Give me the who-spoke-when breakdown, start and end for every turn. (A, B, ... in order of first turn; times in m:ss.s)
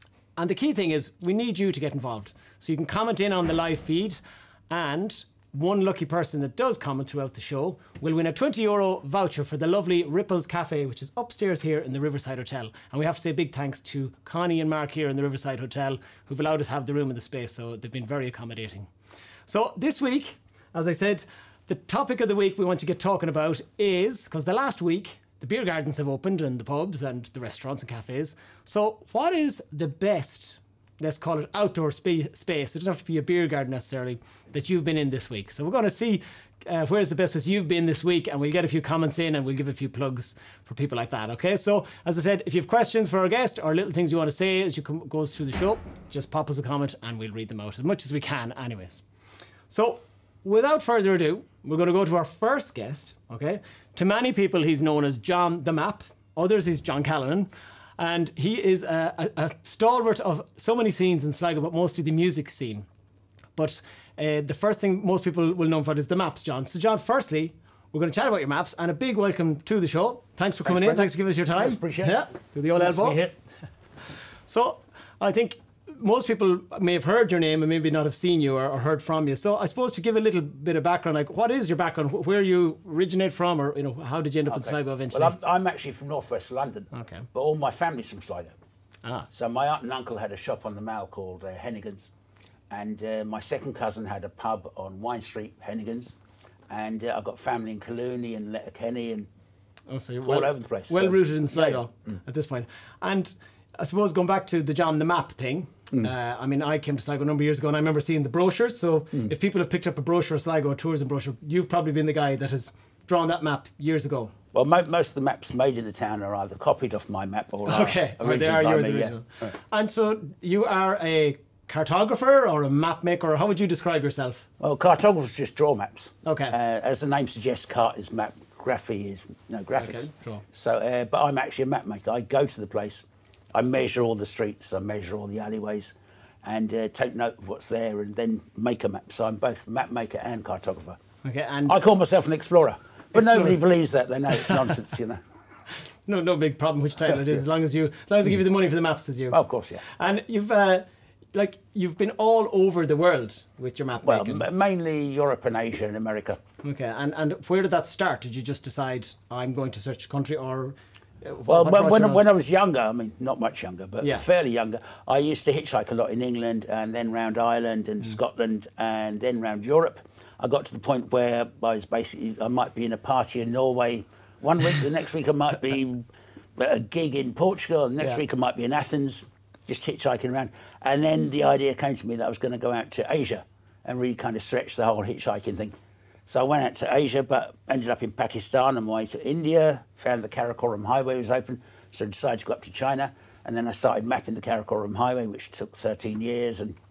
0:00.4-0:18.9 A
0:19.5-0:49.0 A
0:49.7-1:02.9 A
1:03.6-1:13.2 A
1:10.6-1:12.2 B
1:12.7-1:13.3 B
1:14.5-1:25.3 A
1:24.4-1:28.5 B
1:26.9-1:27.2 A
1:29.3-1:32.1 B
1:32.7-1:36.1 B
1:36.7-1:39.3 B
1:39.9-1:54.3 A
1:40.2-1:41.8 B
1:54.5-1:59.5 B
1:57.6-2:04.4 A
2:04.6-2:21.0 B
2:06.2-2:06.5 A
2:09.8-2:10.4 A
2:21.2-2:21.8 A
2:21.7-2:25.2 B
2:23.1-2:23.6 A
2:24.3-2:24.7 A
2:26.0-2:34.4 A
2:29.3-2:29.8 B
2:34.0-2:36.4 B
2:36.6-2:42.2 A
2:41.5-3:05.7 B
3:06.3-3:16.8 B